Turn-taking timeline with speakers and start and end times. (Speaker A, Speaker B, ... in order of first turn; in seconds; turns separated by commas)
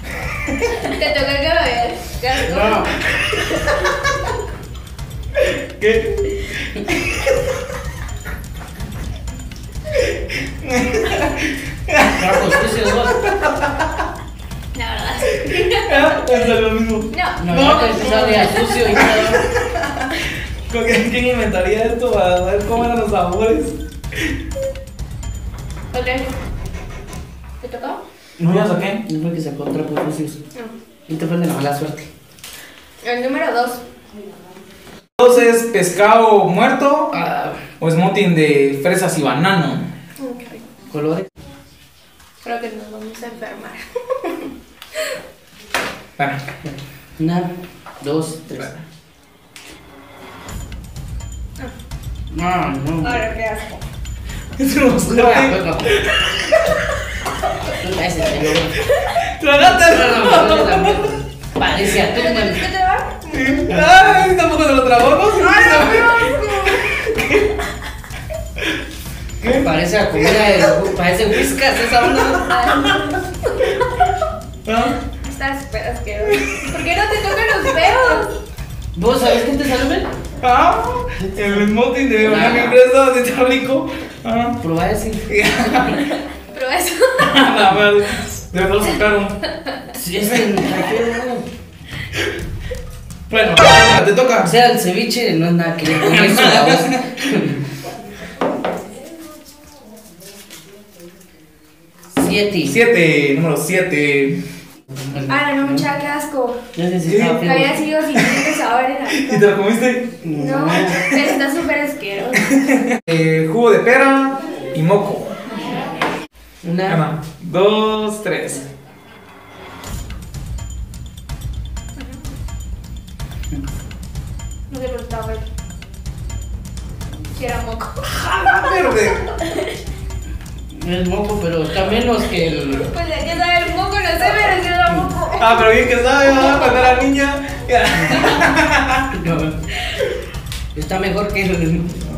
Speaker A: 0.3-0.6, Speaker B: 0.6-2.9, Speaker C: 2.5-2.9, Speaker A: 3.1-3.4, Speaker B: 3.5-3.7, Speaker A: 5.4-7.5, Speaker A: 10.6-14.0, Speaker C: 12.2-13.2, Speaker B: 14.7-16.4, Speaker A: 15.8-20.0, Speaker B: 17.1-19.0, Speaker C: 17.4-19.4, Speaker A: 20.7-24.3, Speaker B: 25.9-26.3, Speaker B: 27.6-28.0, Speaker C: 28.4-30.4, Speaker A: 28.4-29.0, Speaker C: 31.1-32.1, Speaker B: 33.0-33.8, Speaker A: 35.2-37.1, Speaker C: 37.1-37.6, Speaker A: 37.8-39.9, Speaker B: 40.2-40.6, Speaker C: 40.9-41.2, Speaker B: 42.4-44.5, Speaker C: 47.2-48.7, Speaker C: 52.3-53.2, Speaker B: 53.0-53.8, Speaker A: 54.6-56.9, Speaker C: 55.0-56.0, Speaker C: 57.6-58.8, Speaker A: 58.9-61.1, Speaker C: 59.6-62.7, Speaker B: 61.8-63.7, Speaker A: 63.3-67.5, Speaker C: 63.7-64.2, Speaker B: 65.3-67.3, Speaker A: 69.4-73.0, Speaker C: 69.4-72.5, Speaker B: 72.3-74.1, Speaker A: 74.6-75.0, Speaker B: 75.1-78.3, Speaker A: 76.2-76.7, Speaker A: 77.7-78.0, Speaker C: 78.9-80.1, Speaker A: 80.4-84.6, Speaker C: 81.2-81.5, Speaker C: 82.1-82.8, Speaker C: 84.6-85.3, Speaker A: 85.3-86.1, Speaker B: 86.0-87.4, Speaker A: 87.2-89.4, Speaker C: 89.9-91.5, Speaker A: 93.3-94.5, Speaker C: 93.4-93.8, Speaker C: 94.4-97.6, Speaker A: 95.9-97.0, Speaker C: 102.1-102.7, Speaker A: 102.6-104.4, Speaker C: 104.9-105.9, Speaker B: 105.3-106.6, Speaker C: 106.7-107.8, Speaker A: 107.1-107.4, Speaker B: 107.2-109.5, Speaker A: 108.1-108.5, Speaker A: 109.1-110.2, Speaker C: 110.2-111.0, Speaker B: 110.3-112.5, Speaker A: 110.8-111.3, Speaker A: 112.4-115.4, Speaker C: 116.6-117.0, Speaker A: 116.8-118.6, Speaker B: 124.7-125.4, Speaker B: 127.3-129.8, Speaker A: 128.1-129.2, Speaker C: 130.7-132.9, Speaker B: 132.8-135.7, Speaker A: 135.4-139.1, Speaker B: 136.3-136.9, Speaker C: 138.1-138.4, Speaker C: 139.1-139.6, Speaker C: 140.7-142.0